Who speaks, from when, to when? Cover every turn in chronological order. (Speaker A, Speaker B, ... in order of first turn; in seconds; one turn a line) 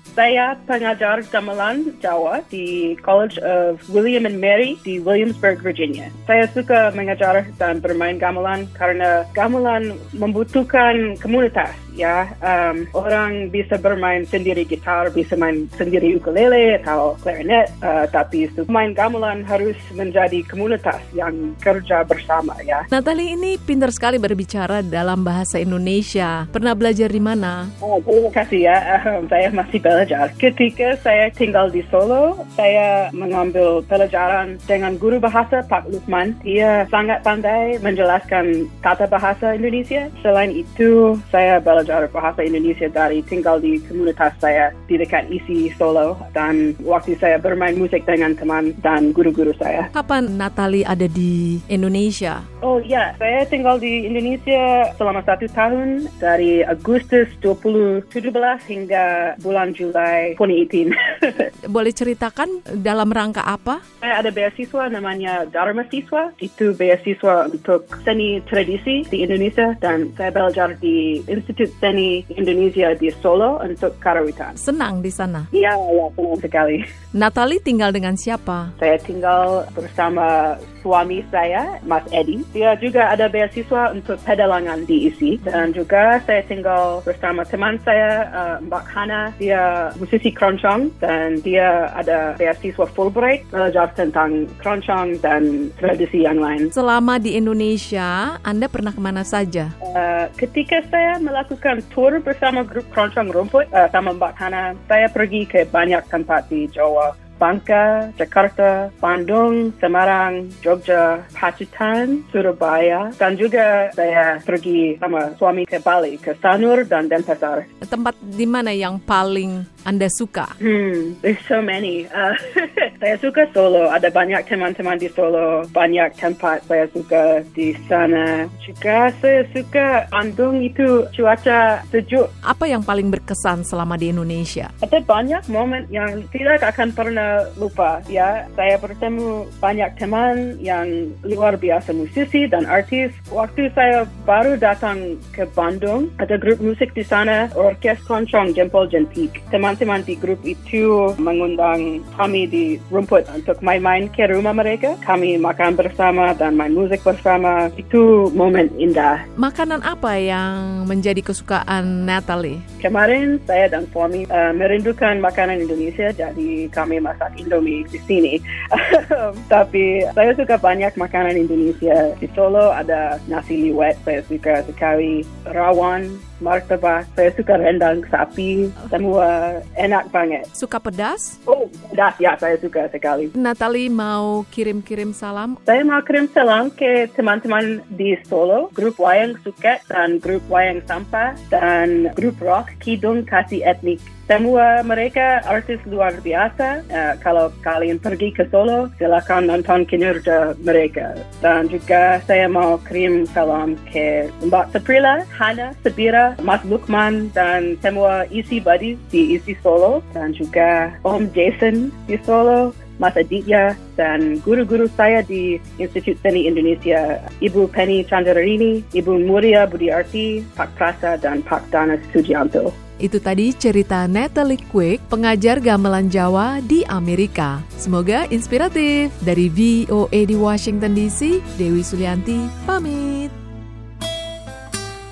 Speaker A: 0.1-22.9
Speaker B: 22.9-27.7
Speaker A: 27.8-49.9
Speaker B: 49.9-52.4
Speaker A: 52.6-61.5
Speaker B: 61.7-63.8
Speaker A: 64.0-74.6
Speaker B: 74.6-75.5
Speaker A: 75.5-76.8
Speaker B: 77.1-78.7
Speaker A: 78.8-96.7
Speaker B: 96.7-99.7
Speaker A: 99.8-117.7
Speaker B: 117.8-120.5
Speaker A: 120.6-132.3
Speaker B: 132.4-134.7
Speaker A: 134.8-159.2
Speaker B: 159.4-162.6
Speaker A: 162.8-180.5
Speaker B: 180.5-181.4
Speaker A: 181.5-183.3
Speaker B: 183.3-185.6
Speaker A: 185.7-222.7
Speaker B: 223.0-233.3